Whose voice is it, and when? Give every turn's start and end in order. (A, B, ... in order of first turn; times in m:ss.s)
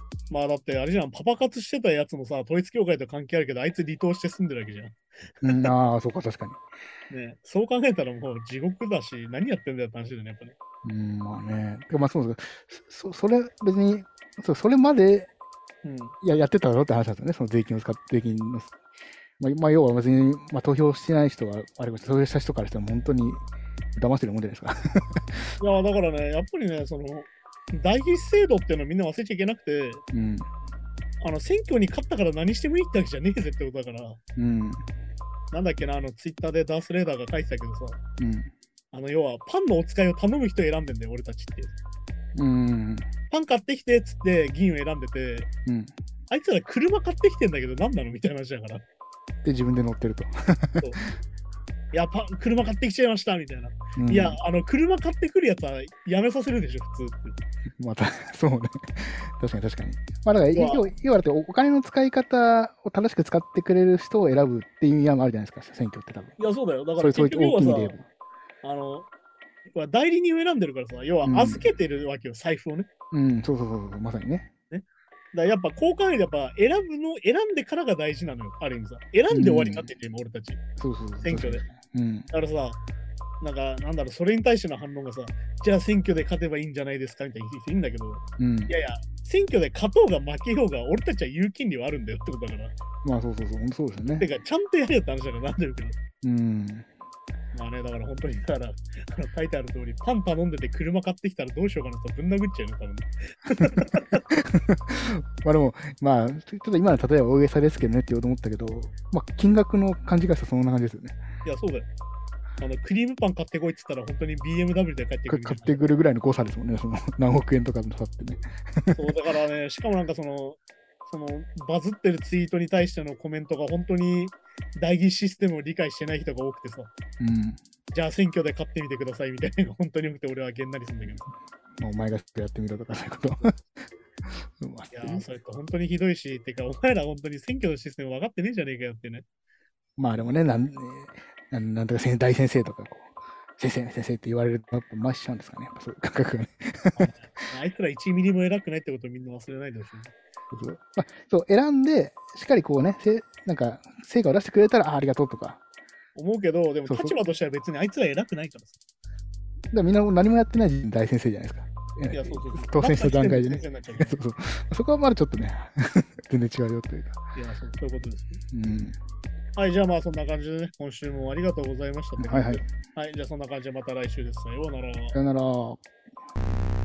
0:00.3-0:05.7 A
0:05.4-0:06.6 B
0:07.1-0:10.6 A
0:10.8-0:15.3 B
0:15.8-0:16.2 A
0:16.2-0:18.8 B
0:19.4-0:25.5 B
0:25.6-0:30.0 A
0:30.1-0:30.5 B
0:31.2-0:34.2 A
0:34.4-0:34.8 B
0:35.5-0:38.0 A
0:38.2-0:38.5 B
0:38.9-0:41.7 A
0:42.4-0:43.1 B
0:43.3-0:45.5 A
0:45.7-0:45.9 B
0:46.3-0:48.8 A
0:49.4-0:50.9 B
0:51.9-0:57.4 A
0:54.0-0:54.4 B
0:57.8-1:06.4 B
1:00.5-1:00.9 A
1:06.4-1:08.0 A
1:07.0-1:08.1 B
1:08.6-1:09.1 A
1:09.7-1:12.9 A
1:11.2-1:11.7 B
1:13.1-1:14.5 B
1:14.7-1:20.6 A
1:19.3-1:19.9 B
1:20.8-1:22.3 B
1:21.2-1:21.6 A
1:22.3-1:22.8 A
1:23.4-1:32.8 A
1:28.4-1:28.7 B
1:33.0-1:34.3 B
1:34.1-1:36.0 A
1:36.2-1:36.9 B
1:37.5-1:44.2 A
1:43.6-1:51.2 B
1:51.4-1:51.9 A
1:52.6-1:55.9 A
1:55.3-1:59.0 B
1:58.9-2:06.9 A
2:07.2-2:07.6 B
2:07.9-2:11.3 A
2:11.8-2:13.5 B
2:14.3-2:15.3 B
2:14.9-2:19.2 A
2:20.0-2:27.1 B
2:27.0-2:30.1 A
2:30.5-2:35.6 B
2:36.2-2:38.7 A
2:36.9-2:37.2 B
2:39.7-2:47.2 B
2:42.1-2:44.2 A
2:47.4-2:48.4 A
2:48.5-2:49.0 B
2:49.6-2:55.2 A
2:52.2-2:52.7 B
2:55.1-2:55.8 B